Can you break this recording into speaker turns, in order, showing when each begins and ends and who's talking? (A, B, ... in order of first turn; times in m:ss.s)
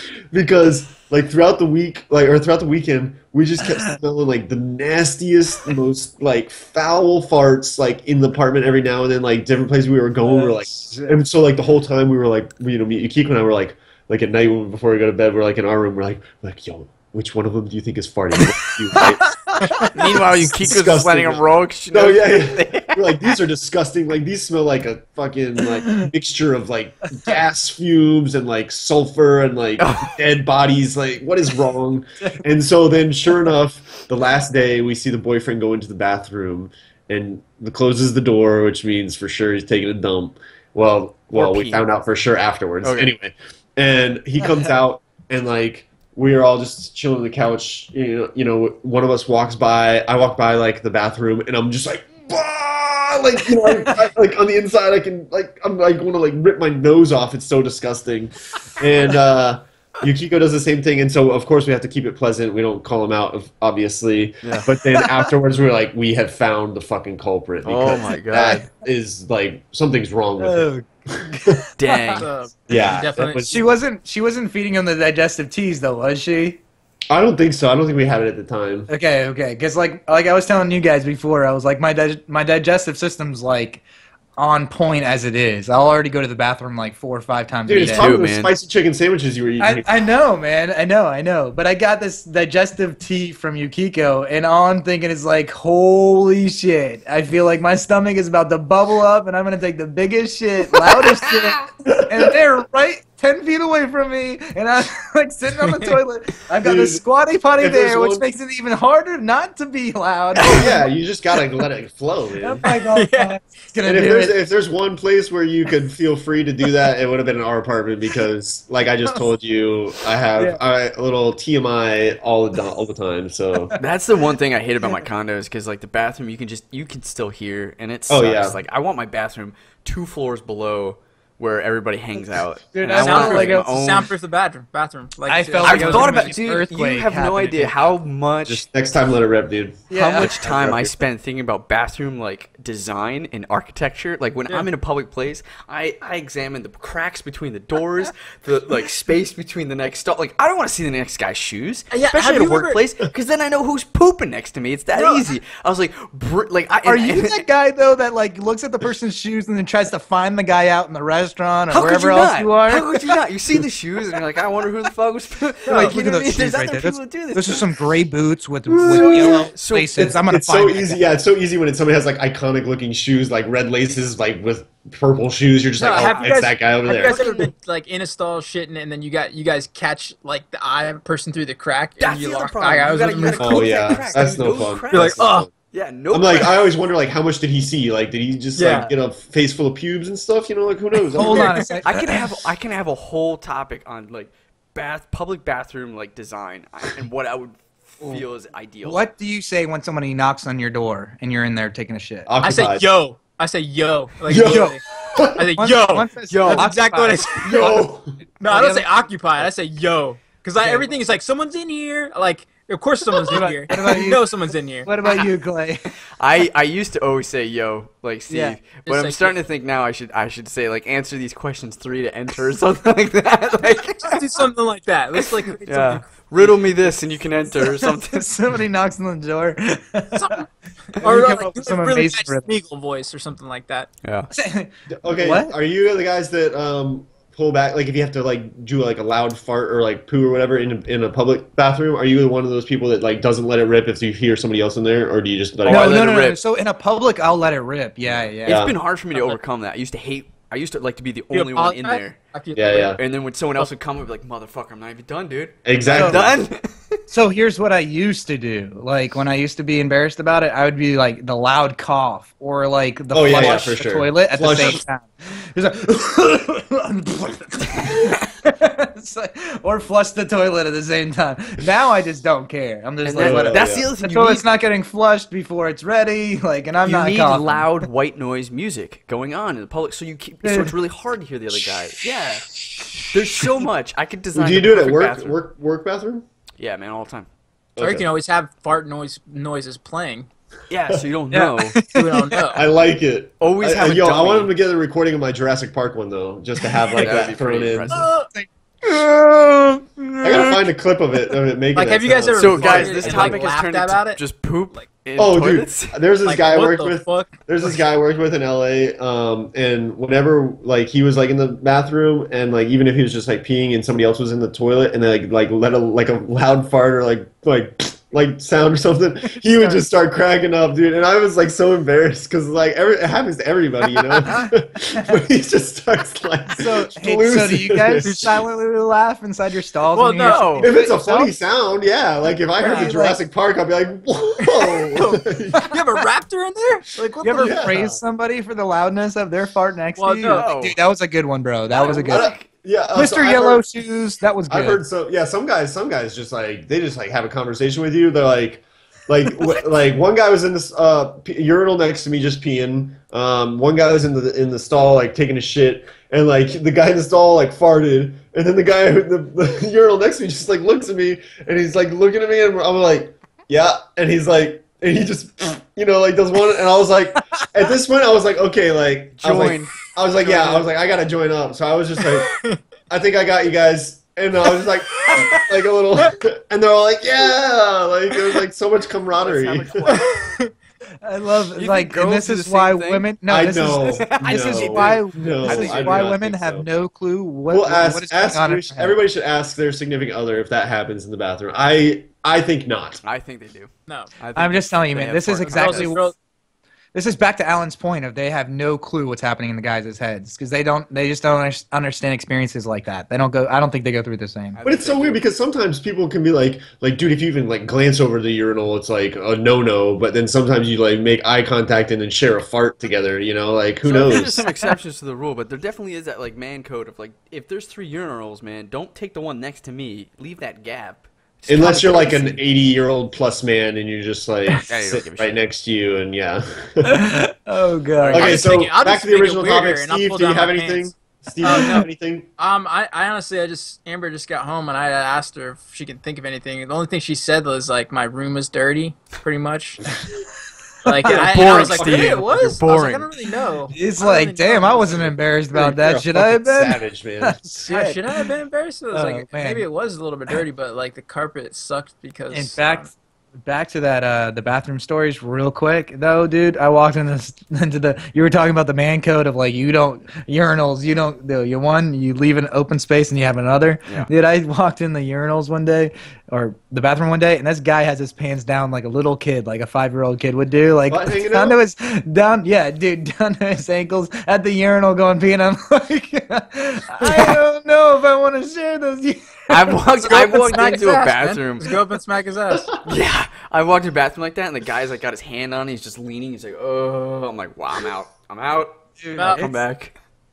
0:00.3-0:19.2 A
0:10.2-0:11.2 B
0:19.3-0:19.9 B
0:19.9-0:23.0 C
0:20.6-1:11.5 A
0:29.8-0:30.1 C
0:41.3-0:41.9 C
0:42.8-0:43.1 C
1:07.6-1:08.6 C
1:10.4-1:12.2 B
1:11.8-1:12.3 C
1:12.2-1:13.5 D
1:12.7-1:13.6 A
1:13.5-1:16.6 B
1:17.1-1:18.9 A
1:18.9-1:23.8 B
1:24.4-1:28.1 B
1:27.7-1:29.9 A
1:27.8-1:28.5 C
1:29.6-1:50.8 B
1:45.6-1:46.0 D
1:46.6-1:47.0 A
1:47.6-1:48.3 A
1:50.4-1:50.6 C
1:50.5-1:52.6 A
1:52.4-1:54.4 B
1:52.9-1:53.3 D
1:53.8-2:03.7 A
1:59.0-1:59.3 B
2:03.8-2:14.1 C
2:08.1-2:08.6 A
2:12.7-2:13.7 B
2:12.9-2:16.4 D
2:15.3-2:17.8 B
2:15.6-2:18.7 C
2:18.4-2:21.0 A
2:19.9-2:20.3 B
2:19.9-2:37.4 C
2:31.9-2:32.8 D
2:34.9-2:35.2 D
2:36.8-2:42.9 B
2:41.7-2:47.7 C
2:45.7-2:46.0 D
2:45.7-2:51.1 B
2:48.7-2:57.3 A
2:48.8-2:50.0 C
2:55.8-3:04.2 D
2:56.0-2:56.3 B
2:57.1-2:57.4 C
3:02.0-3:06.7 C
3:03.4-3:05.5 A
3:04.9-3:05.5 D
3:06.1-3:11.7 A
3:08.5-3:08.9 D
3:08.6-3:08.9 C
3:11.1-3:12.3 B
3:11.1-3:11.6 D
3:11.8-3:19.0 C
3:18.8-3:22.3 B
3:22.2-3:22.8 A
3:22.4-3:24.8 D
3:24.3-3:25.4 A
3:24.3-3:24.8 B
3:25.3-3:27.8 D
3:25.5-3:27.9 B
3:26.3-3:26.7 C
3:27.4-3:28.1 A
3:28.4-3:34.9 D
3:28.4-3:28.9 B
3:30.6-3:30.9 B
3:33.3-3:34.3 B
3:34.8-3:35.9 B
3:36.2-3:44.2 C
3:38.3-3:38.6 B
3:38.8-3:39.4 D
3:44.0-3:47.0 D
3:45.2-3:48.2 C
3:47.6-3:50.2 B
3:50.2-3:53.9 D
3:51.0-3:52.5 B
3:54.0-3:54.3 C
3:54.3-3:55.5 B
3:54.9-4:06.0 A
4:05.6-4:06.4 C
4:05.6-4:08.6 B
4:08.0-4:12.2 C
4:08.5-4:08.8 A
4:09.1-4:09.4 D
4:11.3-4:13.0 D
4:12.5-4:13.0 A
4:13.0-4:17.0 C
4:15.6-4:16.5 A
4:15.9-4:16.3 B
4:17.1-4:37.8 B
4:23.1-4:24.8 A
4:23.3-4:23.6 C
4:33.0-4:34.4 C
4:33.2-4:33.9 A
4:36.8-4:42.5 C
4:40.4-4:40.8 B
4:43.1-4:45.4 C
4:44.3-4:46.2 A
4:46.6-4:47.3 C
4:47.8-4:48.0 A
4:47.8-4:50.3 D
4:50.7-4:51.8 C
4:51.3-4:52.5 B
4:51.9-4:52.6 D
4:52.5-4:58.0 A
4:53.4-4:54.5 C
4:57.0-4:58.1 C
4:57.9-4:58.3 D
4:57.9-5:00.6 B
5:00.2-5:03.4 A
5:01.8-5:04.8 D
5:02.3-5:06.0 C
5:05.2-5:28.4 A
5:06.2-5:07.8 D
5:19.5-5:19.8 B
5:26.6-5:31.3 B
5:28.0-5:28.3 D
5:29.9-5:30.6 D
5:30.2-5:30.7 C
5:30.6-5:35.7 A
5:32.6-5:32.9 D
5:32.6-5:33.2 B
5:34.4-5:37.6 D
5:37.2-5:42.3 B
5:37.4-5:38.0 A
5:40.0-5:40.6 D
5:40.2-5:40.8 C
5:41.7-5:42.5 C
5:42.1-5:43.6 A
5:42.9-5:44.8 B
5:44.5-6:12.3 A
6:09.2-6:10.6 C
6:10.2-6:10.6 D
6:12.2-6:12.6 D
6:12.9-6:20.0 A
6:14.9-6:15.4 D
6:19.2-6:20.0 C
6:19.2-6:20.0 B
6:19.9-6:20.5 D
6:21.0-6:29.0 B
6:21.4-6:23.1 C
6:23.3-6:26.7 A
6:23.8-6:26.2 C
6:27.5-6:33.0 A
6:33.0-6:35.9 C
6:33.9-6:34.1 D
6:34.3-6:36.1 B
6:35.5-6:36.1 D
6:36.9-6:44.6 B
6:44.5-6:45.2 C
6:44.6-6:54.5 A
6:53.8-7:02.2 C
7:01.5-7:06.9 A
7:01.5-7:02.4 B
7:04.7-7:05.4 C
7:06.8-7:08.3 B
7:08.0-7:11.9 D
7:08.1-7:12.3 A
7:08.1-7:08.5 C
7:11.4-7:11.9 B
7:12.4-7:19.9 D
7:20.8-7:25.2 D
7:21.0-7:22.2 A
7:21.1-7:23.1 C
7:23.7-7:28.0 B
7:25.5-7:27.6 A
7:27.7-7:32.8 D
7:28.9-7:29.6 B
7:32.3-8:00.6 B
7:50.9-7:51.6 A
7:59.5-8:01.8 C
8:00.0-8:02.7 D
8:02.8-8:09.9 C
8:09.0-8:09.6 B
8:09.2-8:09.5 D